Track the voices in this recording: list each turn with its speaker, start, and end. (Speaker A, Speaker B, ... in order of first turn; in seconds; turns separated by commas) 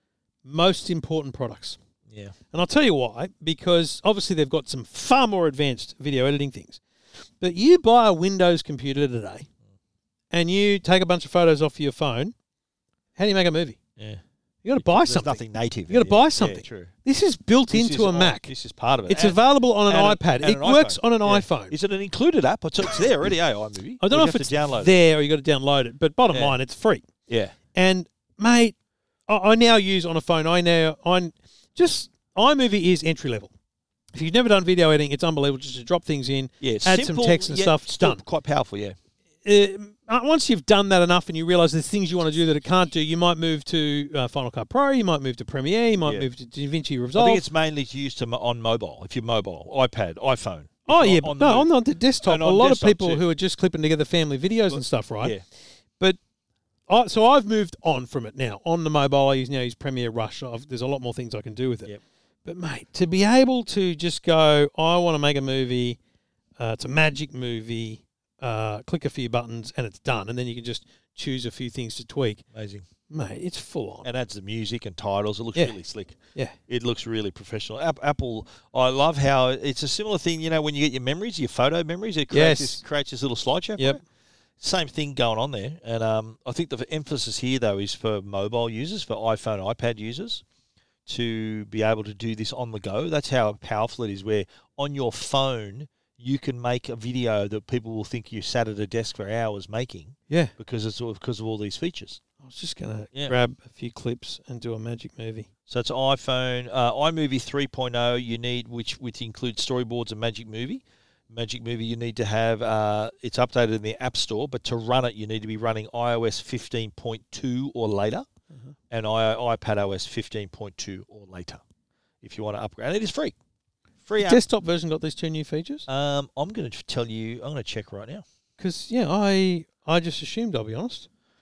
Speaker A: 0.4-1.8, Speaker B: 2.1-2.3, Speaker A: 2.5-6.8, Speaker A: 7.4-9.5, Speaker A: 10.3-12.3, Speaker A: 13.2-13.8, Speaker B: 14.0-14.2, Speaker A: 14.6-18.5, Speaker B: 14.7-16.9, Speaker B: 17.7-25.0, Speaker A: 19.1-21.7, Speaker A: 24.0-27.1, Speaker B: 26.3-26.6, Speaker B: 27.3-27.5, Speaker A: 27.7-28.7, Speaker A: 29.3-33.5, Speaker A: 34.1-38.2, Speaker B: 36.6-39.0, Speaker A: 39.4-47.4, Speaker B: 46.0-46.3, Speaker B: 47.1-51.7, Speaker A: 50.9-55.4, Speaker B: 52.2-53.2, Speaker B: 54.7-55.4, Speaker A: 56.9-61.9, Speaker A: 62.4-66.0, Speaker A: 66.6-72.4, Speaker B: 72.5-72.8, Speaker A: 73.1-74.1, Speaker B: 74.0-84.0, Speaker A: 82.3-82.8, Speaker B: 84.6-90.4, Speaker B: 91.0-102.2, Speaker A: 100.3-100.5, Speaker A: 102.4-105.5, Speaker B: 105.7-118.3, Speaker B: 118.9-121.6, Speaker B: 122.2-123.4, Speaker B: 124.0-124.4, Speaker A: 124.2-125.9, Speaker B: 125.9-128.2, Speaker A: 128.6-131.1